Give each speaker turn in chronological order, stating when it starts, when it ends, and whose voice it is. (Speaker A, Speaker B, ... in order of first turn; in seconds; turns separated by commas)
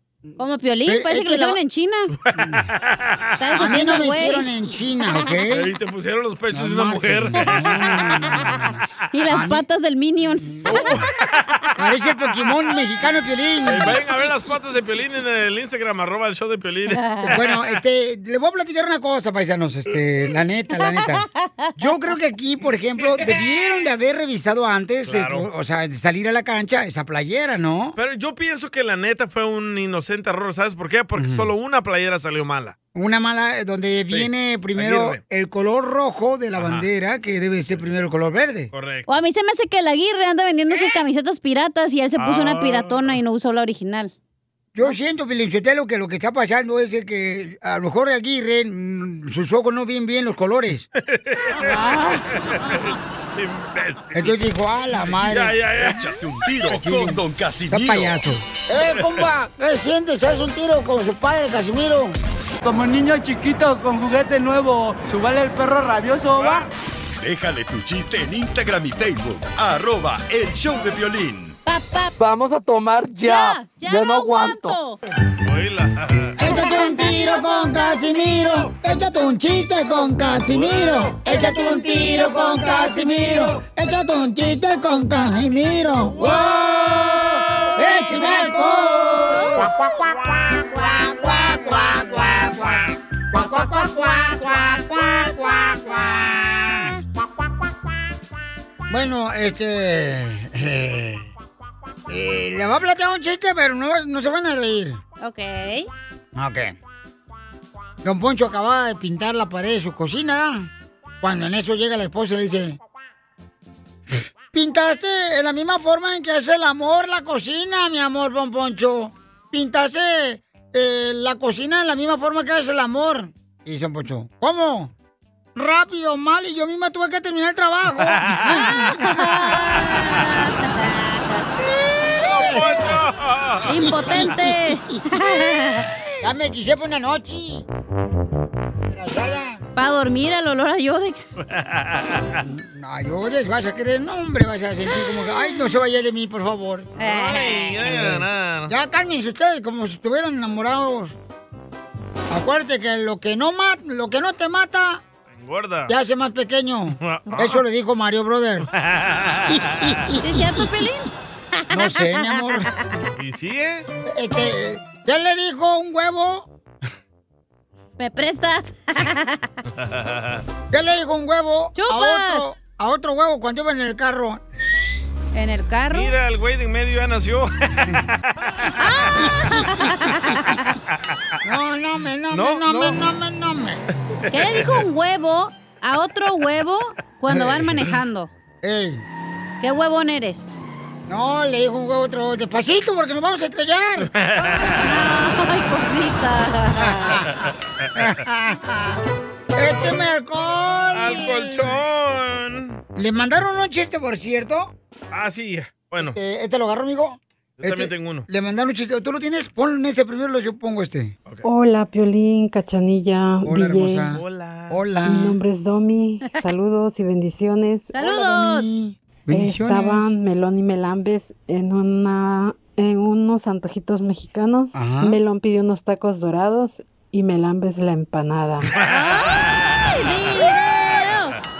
Speaker A: 0.4-2.1, Speaker B: 0.8-1.6, Speaker B: 2.3-2.6, Speaker C: 2.7-3.3, Speaker A: 3.4-4.5, Speaker B: 3.6-5.7, Speaker C: 5.5-7.6, Speaker B: 6.5-9.6, Speaker A: 9.1-10.8, Speaker B: 10.4-11.0, Speaker C: 10.7-11.0, Speaker B: 11.8-14.0, Speaker C: 13.7-17.6, Speaker A: 17.0-17.3, Speaker B: 17.2-28.0, Speaker C: 25.1-25.5, Speaker C: 28.0-32.7, Speaker B: 31.2-31.5, Speaker B: 32.9-38.7, Speaker C: 34.1-35.2, Speaker C: 36.6-36.9, Speaker C: 38.7-39.1, Speaker A: 39.1-44.1, Speaker C: 42.2-43.2, Speaker B: 44.7-50.8, Speaker C: 51.0-51.8, Speaker A: 51.6-52.2, Speaker C: 52.5-54.2, Speaker B: 54.1-55.6, Speaker C: 55.0-56.1, Speaker D: 55.8-58.2, Speaker B: 56.7-62.2, Speaker C: 59.0-59.2, Speaker E: 62.6-66.6, Speaker C: 66.3-66.7, Speaker D: 67.2-71.6, Speaker A: 71.6-72.2, Speaker E: 72.2-74.8, Speaker A: 73.2-75.0, Speaker C: 75.4-76.3, Speaker B: 76.4-89.9, Speaker A: 76.4-78.4, Speaker A: 81.3-82.8, Speaker A: 87.1-89.6, Speaker B: 90.5-97.0, Speaker B: 98.9-101.3, Speaker B: 102.1-105.0, Speaker A: 105.2-105.9, Speaker B: 106.3-106.8, Speaker B: 108.0-110.7, Speaker B: 111.2-112.8, Speaker B: 114.5-124.9, Speaker B: 125.5-128.8, Speaker C: 128.2-128.6, Speaker A: 128.8-131.2, Speaker C: 132.1-133.7, Speaker B: 132.4-133.0, Speaker A: 133.7-135.9, Speaker B: 133.7-135.0, Speaker B: 136.2-137.7, Speaker B: 138.8-139.6, Speaker A: 139.7-141.3, Speaker C: 141.5-142.4, Speaker B: 142.4-146.9, Speaker A: 147.0-147.8, Speaker C: 147.0-148.7, Speaker B: 147.8-151.2, Speaker B: 152.3-155.0, Speaker C: 155.3-155.9, Speaker B: 155.9-158.7, Speaker C: 157.0-157.6, Speaker C: 158.7-159.9, Speaker B: 159.5-160.7, Speaker A: 160.2-161.1, Speaker B: 161.7-162.7, Speaker C: 163.2-163.8, Speaker B: 164.1-166.5, Speaker A: 168.0-169.4, Speaker C: 169.8-170.4, Speaker B: 170.7-174.4, Speaker A: 171.7-172.5, Speaker A: 175.3-176.1, Speaker C: 175.9-178.2, Speaker A: 178.8-180.4, Speaker B: 181.4-183.8, Speaker C: 182.3-183.0, Speaker A: 184.3-188.3, Speaker C: 184.3-184.8, Speaker B: 188.6-189.0, Speaker A: 189.6-190.5, Speaker B: 191.1-194.1, Speaker C: 194.1-194.8, Speaker A: 194.8-197.2, Speaker B: 196.8-197.3, Speaker B: 197.9-199.0, Speaker B: 199.5-201.7, Speaker C: 200.9-202.8, Speaker B: 202.9-204.7, Speaker C: 205.1-206.2, Speaker B: 206.0-211.1, Speaker C: 207.6-208.3, Speaker F: 211.4-214.1, Speaker B: 213.4-215.4, Speaker C: 214.1-214.8, Speaker F: 215.0-217.9, Speaker A: 217.9-218.7, Speaker B: 217.9-220.1, Speaker F: 219.3-228.7, Speaker B: 224.7-225.2, Speaker A: 228.8-231.3